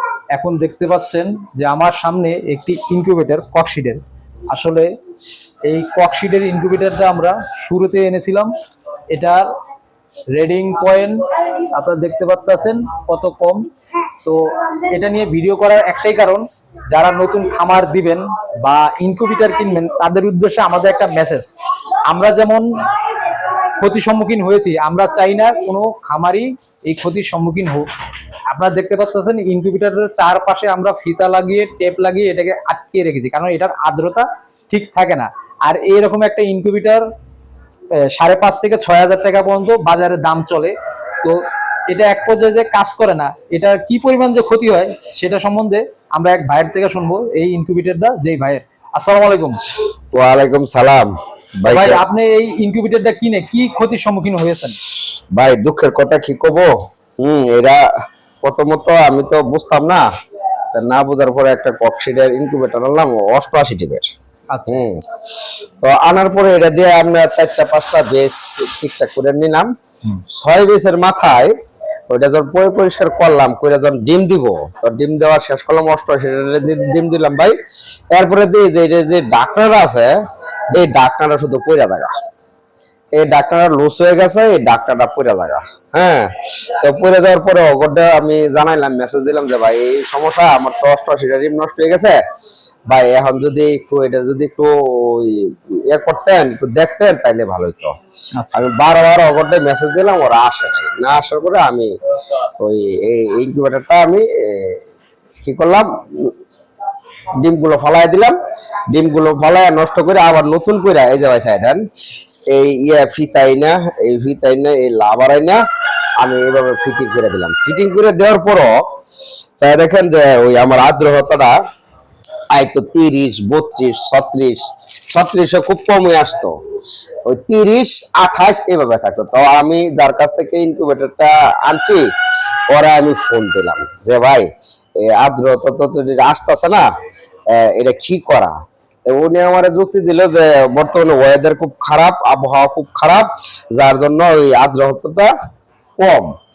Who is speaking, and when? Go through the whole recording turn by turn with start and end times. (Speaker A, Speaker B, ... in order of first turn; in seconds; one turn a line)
Speaker A: 0.3-4.0
Speaker A: 4.5-4.9
Speaker A: 5.7-8.5
Speaker A: 9.1-9.4
Speaker A: 10.3-13.6
Speaker A: 14.2-21.5
Speaker A: 22.1-22.6
Speaker A: 23.8-27.9
Speaker A: 28.5-37.0
Speaker A: 38.0-41.4
Speaker A: 41.9-49.6
Speaker B: 50.1-52.0
Speaker A: 51.6-54.8
Speaker B: 55.3-57.9
Speaker B: 58.4-60.0
Speaker B: 60.7-64.0
Speaker A: 64.5-64.8
Speaker B: 64.7-71.5
Speaker B: 72.1-77.6
Speaker B: 78.1-80.1
Speaker B: 80.7-82.1
Speaker B: 83.2-92.2
Speaker B: 92.9-97.9
Speaker B: 98.5-101.9
Speaker B: 102.6-104.8
Speaker B: 105.4-106.3
Speaker B: 107.4-108.4
Speaker B: 108.9-111.8
Speaker B: 112.5-115.6
Speaker B: 116.2-118.8
Speaker B: 119.6-121.5
Speaker B: 122.5-126.5
Speaker B: 127.2-132.1
Speaker B: 132.7-134.5
Speaker B: 135.0-136.9
Speaker B: 137.5-138.5
Speaker B: 139.1-145.3
Speaker B: 146.0-146.3